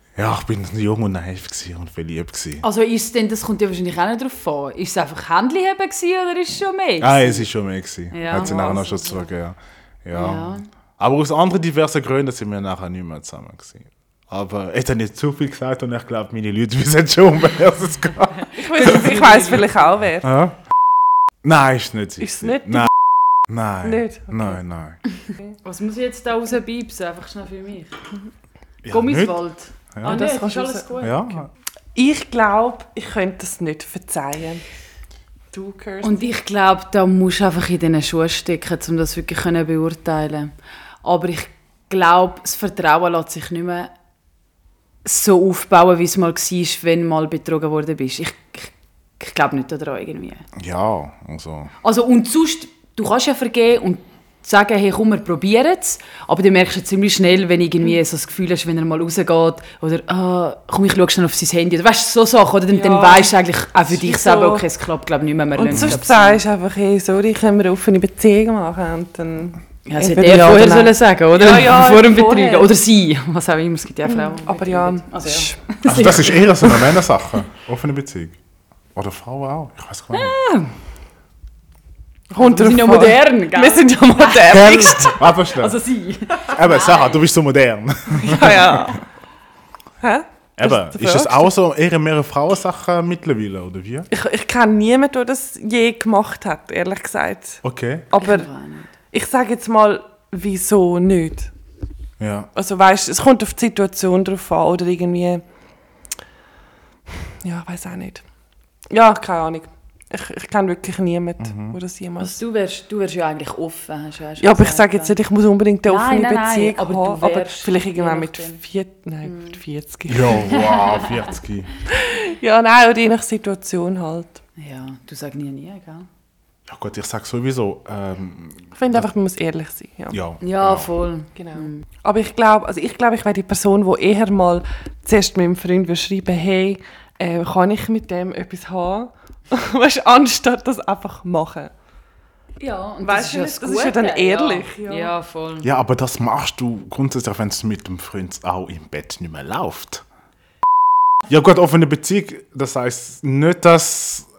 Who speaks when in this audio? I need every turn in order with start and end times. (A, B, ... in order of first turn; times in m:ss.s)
0:00.2-0:02.6 A
0:02.6-0:07.5 B
0:07.0-0:18.9 A
0:08.1-0:09.3 B
0:08.3-0:08.9 C
0:10.1-0:10.7 B
0:18.5-0:19.8 B
0:18.6-0:20.3 C
0:20.2-0:20.6 A
0:21.4-0:22.9 A
0:22.2-0:22.9 C
0:23.5-0:25.0 A
0:23.8-0:24.6 C
0:25.6-0:27.9 B
0:28.8-0:29.4 A
0:28.9-0:31.4 B
0:29.9-0:30.3 A
0:30.0-0:30.9 C
0:31.0-0:31.5 A
0:32.0-0:34.6 C
0:35.5-0:36.3 C
0:36.0-0:40.5 B
0:41.0-0:43.9 B
0:45.0-0:50.4 B
0:50.6-0:51.7 A
0:51.8-1:06.4 B
1:02.7-1:03.4 C
1:03.9-1:04.6 C
1:05.6-1:12.7 C
1:05.7-1:06.0 A
1:09.9-1:16.9 B
1:14.0-1:15.6 C
1:15.8-1:18.4 A
1:18.9-1:20.4 A
1:20.1-1:20.7 B
1:22.3-1:25.2 C
1:22.4-1:27.2 B
1:24.4-1:25.8 A
1:26.5-1:28.9 A
1:28.2-1:28.9 B
1:28.2-1:29.0 C
1:30.0-1:31.5 C
1:30.6-1:34.1 A
1:34.1-1:38.5 C
1:37.6-1:38.1 A
1:38.2-1:38.9 B
1:39.1-1:41.5 C
1:42.2-1:42.5 A
1:42.6-1:45.4 C
1:47.4-1:48.2 C
1:48.9-1:52.4 C
1:51.4-1:51.8 A
1:52.2-1:55.2 B
1:54.4-2:00.5 C
1:55.9-1:58.6 B
1:59.3-1:59.6 B
2:00.1-2:01.7 A
2:00.4-2:01.1 B
2:01.9-2:04.4 C
2:04.6-2:06.1 B
2:06.7-2:09.1 A
2:08.8-2:10.2 C
2:10.1-2:10.9 A
2:10.4-2:11.9 B
2:11.4-2:21.7 C
2:22.6-2:25.7 B
2:23.0-2:25.1 C
2:25.6-2:30.0 A
2:31.3-2:34.3 A